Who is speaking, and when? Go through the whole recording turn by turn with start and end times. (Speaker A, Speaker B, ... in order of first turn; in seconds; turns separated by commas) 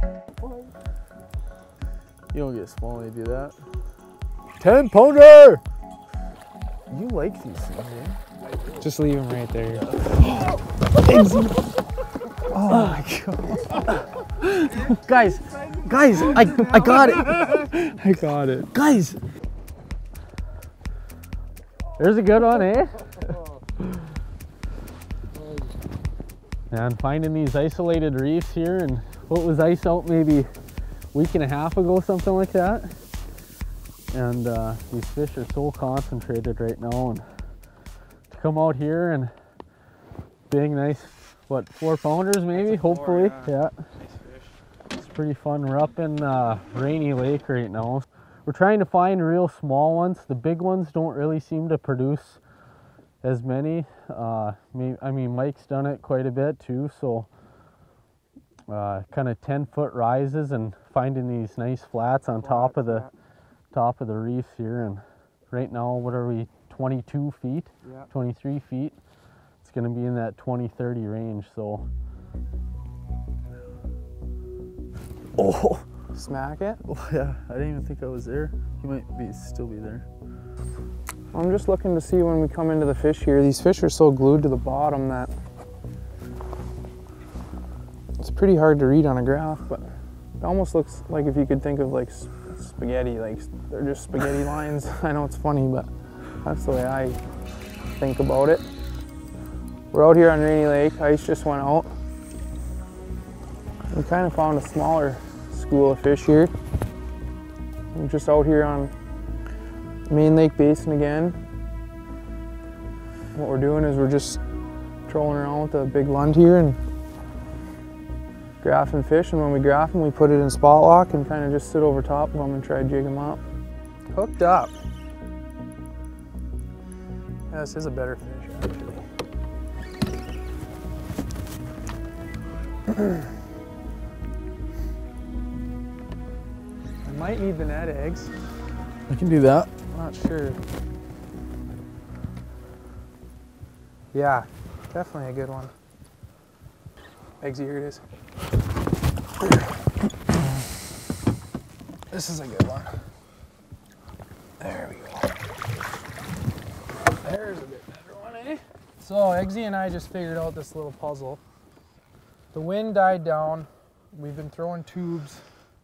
Speaker A: 2.3-3.6, Speaker A: 4.6-5.6, Speaker A: 6.9-8.2, Speaker B: 8.8-9.9, Speaker A: 9.8-10.1, Speaker B: 11.0-11.7, Speaker B: 12.5-13.8, Speaker A: 12.7-13.0, Speaker A: 14.7-17.7, Speaker B: 16.9-18.7, Speaker A: 18.7-19.2, Speaker A: 22.0-23.4, Speaker A: 26.7-30.5, Speaker A: 31.1-33.0, Speaker A: 34.1-37.3, Speaker A: 38.3-39.3, Speaker A: 40.5-43.8, Speaker B: 42.5-43.5, Speaker B: 44.1-44.5, Speaker A: 44.9-52.4, Speaker A: 53.2-57.3, Speaker A: 58.7-63.1, Speaker B: 62.3-63.1, Speaker A: 63.7-69.0, Speaker A: 69.6-71.9, Speaker A: 75.4-75.8, Speaker B: 76.1-76.8, Speaker A: 76.8-80.0, Speaker B: 81.3-85.3, Speaker B: 88.2-89.9, Speaker B: 90.4-95.9, Speaker B: 96.4-97.2, Speaker B: 98.0-98.7, Speaker B: 99.9-101.9, Speaker B: 103.9-106.5, Speaker B: 107.9-108.9, Speaker B: 110.1-111.4, Speaker B: 113.3-114.4, Speaker B: 115.1-116.8, Speaker B: 118.6-123.4, Speaker B: 124.1-124.7, Speaker B: 127.5-129.0, Speaker B: 137.0-138.3, Speaker A: 139.1-139.7, Speaker B: 139.9-140.6, Speaker B: 144.1-145.7, Speaker B: 147.4-148.0, Speaker B: 152.1-152.9, Speaker B: 154.6-155.3, Speaker B: 157.2-161.4, Speaker B: 162.5-165.4